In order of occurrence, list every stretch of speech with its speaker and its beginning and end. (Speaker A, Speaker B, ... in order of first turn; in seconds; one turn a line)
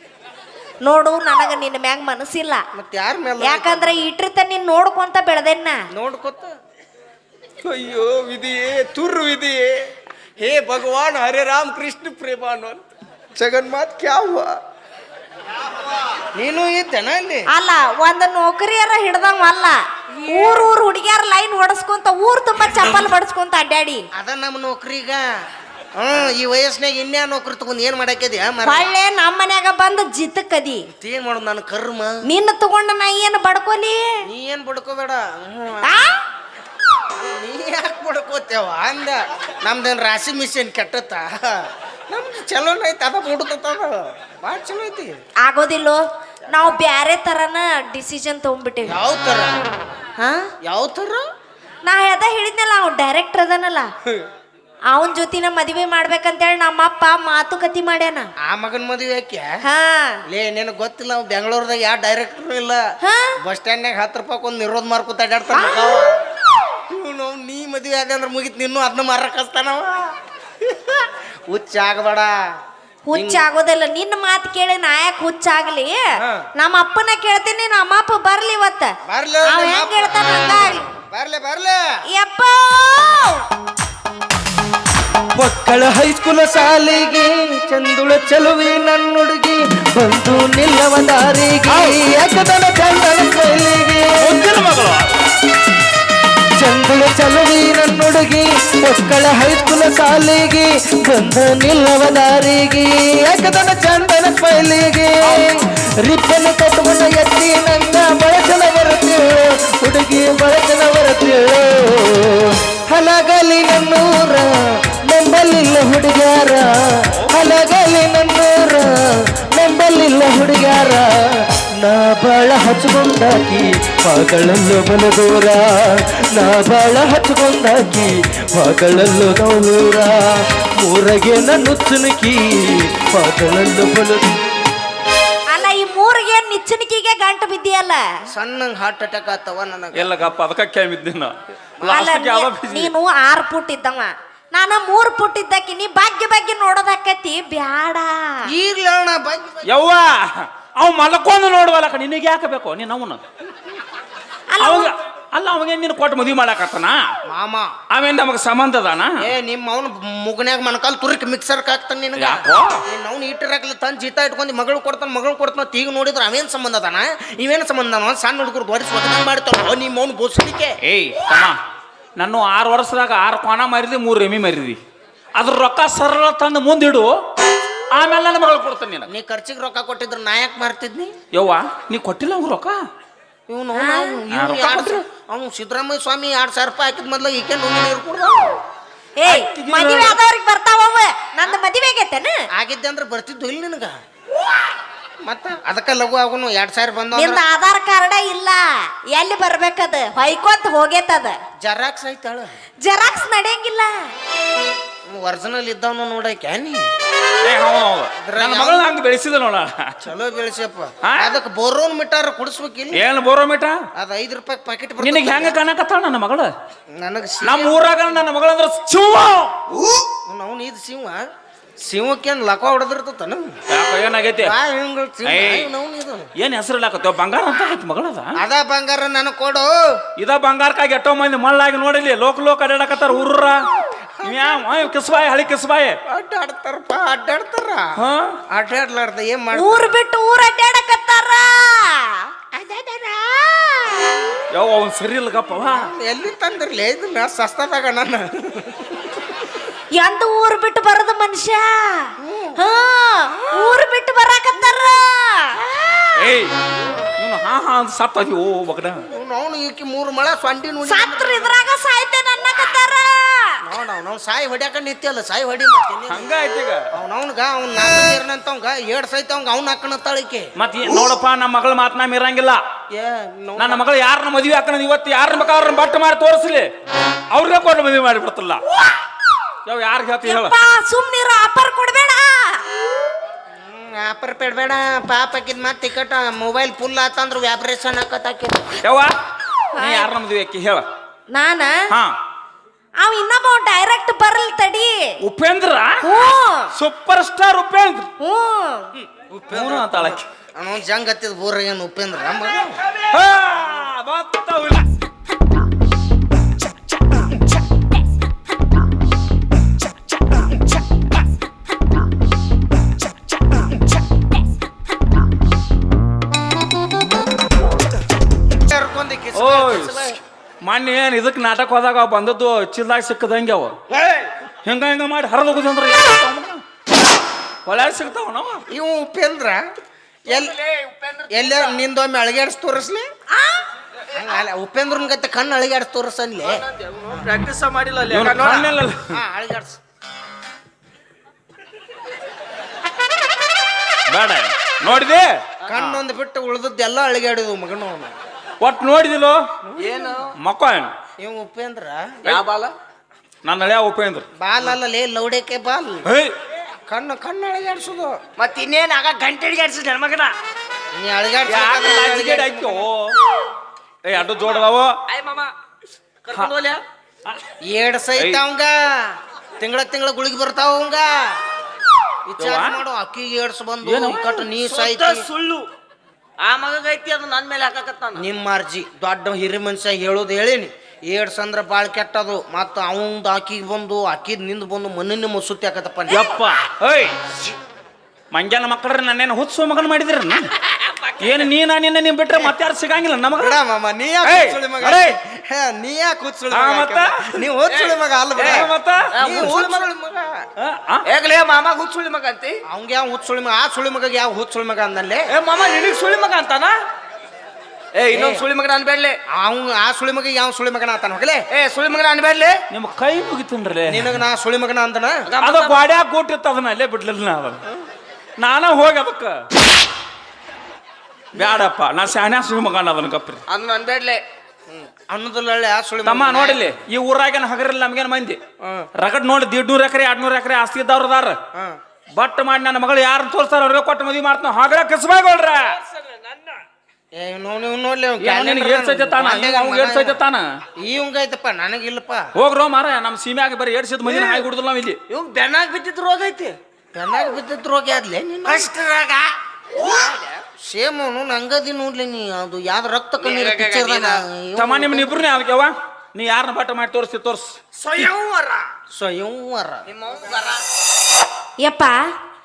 Speaker A: 0.8-2.6
Speaker B: 2.7-4.1
Speaker A: 3.4-5.8
Speaker B: 5.9-6.5
Speaker C: 7.7-9.1
Speaker B: 8.2-9.9
Speaker B: 10.4-12.8
Speaker C: 11.3-12.5
Speaker C: 13.4-14.5
Speaker B: 13.4-14.0
Speaker B: 16.3-17.5
Speaker A: 17.5-24.1
Speaker B: 24.2-25.3
Speaker B: 26.0-28.9
Speaker A: 28.6-30.9
Speaker B: 31.0-32.2
Speaker A: 32.2-34.3
Speaker B: 34.3-36.0
Speaker A: 35.8-36.2
Speaker B: 37.1-45.2
Speaker A: 45.4-49.0
Speaker B: 48.9-49.6
Speaker A: 50.2-50.5
Speaker B: 50.6-51.3
Speaker A: 51.9-53.9
Speaker A: 54.9-58.3
Speaker B: 58.4-59.5
Speaker A: 59.6-60.2
Speaker B: 60.3-62.8
Speaker A: 63.0-63.4
Speaker B: 63.4-66.1
Speaker A: 65.5-65.8
Speaker B: 66.9-72.3
Speaker A: 73.1-76.0
Speaker B: 73.1-73.4
Speaker B: 76.2-76.5
Speaker A: 76.6-78.9
Speaker B: 79.1-82.0
Speaker A: 79.4-80.8
Speaker A: 82.1-83.5
Speaker C: 85.4-94.5
Speaker D: 94.2-95.1
Speaker C: 96.6-134.4
Speaker D: 117.2-117.4
Speaker A: 135.5-138.1
Speaker B: 138.3-140.1
Speaker D: 139.9-142.9
Speaker A: 141.9-148.5
Speaker B: 148.5-149.7
Speaker D: 149.7-153.2
Speaker A: 154.5-154.9
Speaker D: 154.6-157.0
Speaker B: 157.3-157.7
Speaker D: 157.9-159.2
Speaker B: 159.2-170.8
Speaker D: 162.2-162.8
Speaker D: 170.8-171.6
Speaker D: 172.2-174.8
Speaker D: 175.4-177.2
Speaker D: 177.9-179.1
Speaker B: 179.1-181.1
Speaker D: 181.3-182.8
Speaker B: 183.5-188.6
Speaker A: 183.8-184.2
Speaker D: 184.3-185.0
Speaker A: 189.2-192.4
Speaker D: 189.3-190.2
Speaker B: 192.6-194.0
Speaker B: 195.2-197.4
Speaker A: 197.2-201.4
Speaker B: 201.6-202.6
Speaker A: 202.8-204.0
Speaker B: 205.1-206.9
Speaker D: 207.4-210.0
Speaker B: 208.2-209.0
Speaker B: 210.0-213.0
Speaker D: 211.0-211.4
Speaker D: 212.9-213.8
Speaker B: 214.0-215.6
Speaker D: 215.0-216.5
Speaker B: 216.9-217.8
Speaker D: 217.4-220.1
Speaker B: 220.3-221.2
Speaker B: 221.8-223.5
Speaker D: 223.7-224.5
Speaker B: 224.4-226.3
Speaker D: 225.2-225.7
Speaker D: 226.4-228.4
Speaker B: 228.4-230.0
Speaker D: 230.2-233.7
Speaker B: 234.2-234.6
Speaker D: 234.2-236.0
Speaker B: 236.1-238.0
Speaker D: 238.0-238.4
Speaker B: 238.5-239.9
Speaker A: 239.5-242.3
Speaker B: 242.5-243.7
Speaker A: 243.8-244.2
Speaker D: 244.5-245.9
Speaker B: 245.7-249.1
Speaker A: 250.0-256.3
Speaker B: 252.2-252.6
Speaker D: 256.2-256.5
Speaker D: 257.2-259.0
Speaker B: 259.1-261.7
Speaker A: 260.8-263.6
Speaker B: 263.6-266.3
Speaker D: 266.1-266.8
Speaker B: 266.9-270.5
Speaker D: 270.6-272.6
Speaker B: 272.9-273.8
Speaker D: 273.6-276.7
Speaker D: 277.3-278.6
Speaker D: 279.7-280.5
Speaker A: 280.2-282.6
Speaker B: 283.5-288.7
Speaker D: 288.8-289.2
Speaker A: 289.7-290.1
Speaker D: 289.8-290.9
Speaker A: 291.3-291.8
Speaker A: 293.0-295.2
Speaker D: 295.2-296.0
Speaker A: 296.0-296.7
Speaker D: 296.8-298.1
Speaker A: 298.2-298.9
Speaker B: 299.0-302.8
Speaker D: 299.5-300.2
Speaker D: 303.1-304.9
Speaker B: 318.5-320.2
Speaker D: 319.3-320.0
Speaker D: 320.6-323.8
Speaker D: 324.6-326.6
Speaker D: 327.7-328.6
Speaker B: 328.7-329.6
Speaker B: 330.3-330.6
Speaker E: 330.3-331.8
Speaker B: 331.3-333.1
Speaker A: 333.3-333.6
Speaker B: 334.1-336.6
Speaker E: 336.5-338.7
Speaker D: 338.1-339.2
Speaker B: 338.2-339.8
Speaker D: 344.1-346.0
Speaker B: 345.7-348.1
Speaker D: 348.6-349.4
Speaker B: 349.6-350.0
Speaker E: 349.8-350.4
Speaker D: 350.4-350.9
Speaker B: 351.2-352.4
Speaker E: 352.2-352.7
Speaker D: 353.4-354.3
Speaker B: 354.4-356.1
Speaker D: 356.1-356.3
Speaker B: 356.9-358.2
Speaker E: 358.4-360.3
Speaker B: 360.9-362.9
Speaker D: 361.5-363.2
Speaker D: 364.1-365.0
Speaker E: 364.4-365.5
Speaker E: 366.2-366.8
Speaker B: 367.6-371.4
Speaker B: 372.3-375.3
Speaker D: 372.4-372.8
Speaker D: 373.8-374.5
Speaker E: 374.6-375.7
Speaker E: 376.4-378.3
Speaker B: 378.2-386.2
Speaker D: 386.1-387.2
Speaker D: 388.3-390.5
Speaker E: 390.7-391.2
Speaker D: 391.2-393.6
Speaker B: 393.4-400.4
Speaker D: 394.2-395.2
Speaker D: 396.5-397.4
Speaker E: 397.7-399.9
Speaker D: 398.4-399.1
Speaker D: 400.6-401.0
Speaker E: 401.1-402.6
Speaker B: 402.7-405.3
Speaker E: 405.3-406.8
Speaker E: 407.9-409.2
Speaker B: 408.1-408.4
Speaker B: 409.4-411.4
Speaker E: 411.5-412.6
Speaker D: 412.7-414.2
Speaker B: 413.9-415.3
Speaker E: 415.3-415.8
Speaker D: 415.4-417.6
Speaker D: 418.4-419.4
Speaker B: 421.4-421.6
Speaker D: 421.4-423.4
Speaker E: 423.5-424.2
Speaker B: 424.7-426.7
Speaker D: 426.0-428.4
Speaker D: 429.0-431.4
Speaker D: 432.2-435.8
Speaker E: 436.0-436.6
Speaker B: 437.2-440.2
Speaker D: 438.2-440.4
Speaker B: 440.8-442.3
Speaker D: 442.4-445.0
Speaker E: 444.1-444.4
Speaker E: 445.1-446.6
Speaker B: 446.9-448.7
Speaker E: 448.4-450.4
Speaker B: 450.6-455.3
Speaker E: 453.2-454.2
Speaker D: 454.6-457.6
Speaker E: 457.8-458.6
Speaker B: 458.9-459.9
Speaker E: 459.9-460.6
Speaker A: 461.6-462.0